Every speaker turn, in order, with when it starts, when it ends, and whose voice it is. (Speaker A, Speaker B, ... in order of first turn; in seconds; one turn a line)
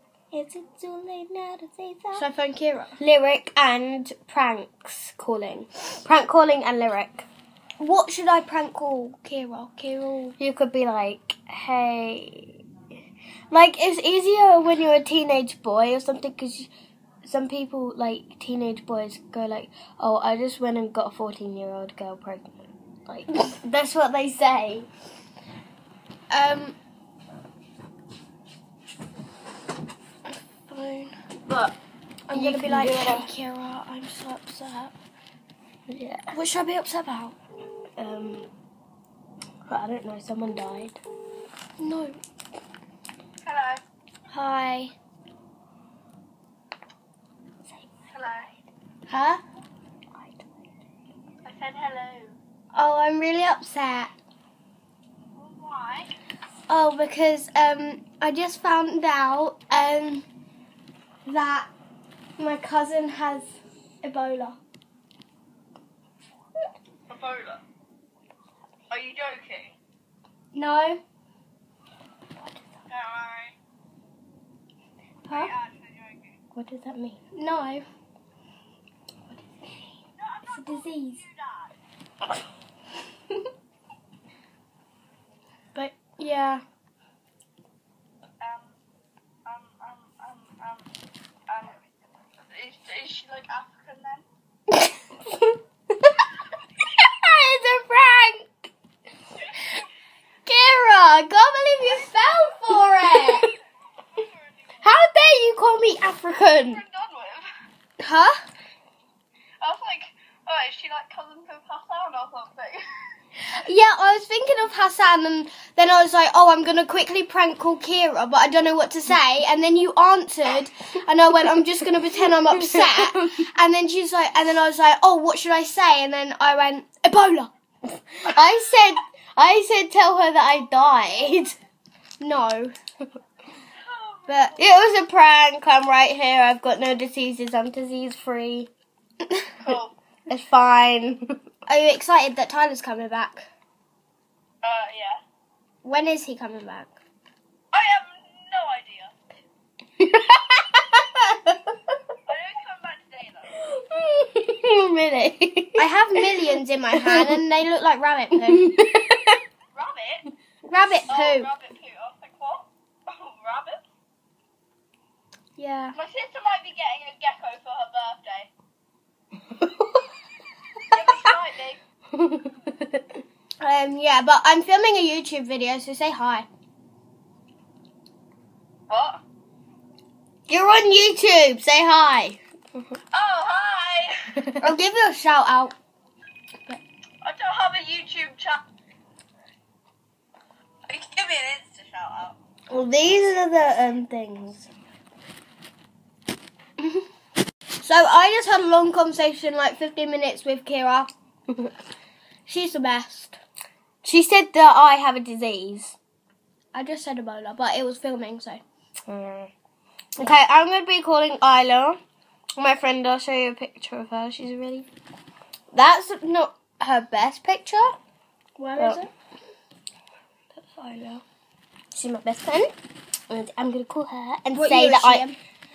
Speaker A: 0.3-2.2
Speaker B: 2.1-3.0
Speaker A: 3.0-7.3
Speaker B: 7.8-10.3
Speaker A: 10.4-12.6
Speaker A: 13.5-16.7
Speaker A: 17.2-24.9
Speaker B: 26.3-26.8
Speaker B: 30.3-31.1
Speaker A: 31.5-31.7
Speaker B: 32.3-34.9
Speaker A: 32.3-33.3
Speaker A: 35.9-36.3
Speaker B: 36.3-37.4
Speaker A: 38.0-38.5
Speaker A: 39.7-41.0
Speaker B: 41.8-42.2
Speaker C: 43.4-43.8
Speaker B: 44.3-44.9
Speaker C: 48.1-48.5
Speaker B: 49.1-49.4
Speaker C: 51.4-52.3
Speaker B: 52.7-54.1
Speaker C: 55.4-56.1
Speaker B: 56.7-60.2
Speaker B: 61.2-61.7
Speaker B: 62.4-64.6
Speaker C: 67.1-67.6
Speaker C: 68.9-69.7
Speaker B: 70.5-71.0
Speaker C: 72.9-73.5
Speaker B: 75.3-75.5
Speaker C: 75.3-76.4
Speaker A: 76.5-77.2
Speaker B: 77.3-77.8
Speaker C: 80.2-81.7
Speaker B: 80.5-81.2
Speaker B: 85.7-86.6
Speaker C: 88.4-88.8
Speaker C: 89.5-90.9
Speaker C: 91.5-91.8
Speaker C: 92.5-94.2
Speaker A: 96.8-98.5
Speaker B: 100.5-103.5
Speaker A: 102.9-103.5
Speaker A: 104.8-106.8
Speaker C: 106.7-107.5
Speaker B: 108.0-108.3
Speaker C: 109.6-113.1
Speaker B: 113.3-127.5
Speaker A: 122.5-123.3
Speaker A: 127.8-131.6
Speaker B: 132.2-132.7
Speaker B: 134.2-134.6
Speaker A: 134.6-138.7
Speaker C: 139.6-139.9
Speaker A: 140.3-141.3
Speaker B: 141.7-143.5
Speaker C: 144.6-145.2
Speaker B: 145.8-146.9
Speaker C: 147.7-149.1
Speaker A: 150.0-151.9
Speaker C: 152.2-153.5
Speaker A: 153.5-157.4
Speaker B: 155.8-158.7
Speaker A: 158.4-159.4
Speaker C: 159.7-160.3
Speaker B: 160.6-161.5
Speaker C: 161.1-163.8
Speaker B: 165.6-166.0
Speaker C: 165.9-168.5
Speaker A: 169.5-170.1
Speaker C: 170.9-171.8
Speaker A: 172.1-173.2
Speaker B: 173.6-176.4
Speaker C: 178.9-179.2
Speaker A: 180.5-182.4
Speaker C: 183.1-184.4
Speaker A: 184.4-184.7
Speaker B: 184.6-185.7
Speaker C: 187.2-188.6
Speaker C: 190.9-192.3
Speaker A: 192.7-194.7
Speaker B: 197.8-201.1
Speaker B: 202.4-203.4
Speaker A: 204.0-206.0
Speaker B: 206.7-208.6
Speaker A: 209.1-209.5
Speaker A: 210.2-212.0
Speaker A: 212.6-214.9
Speaker A: 215.7-217.9
Speaker B: 218.6-219.1
Speaker A: 218.8-219.0
Speaker A: 220.5-221.2
Speaker A: 221.9-222.7
Speaker A: 223.3-225.3
Speaker B: 224.5-225.3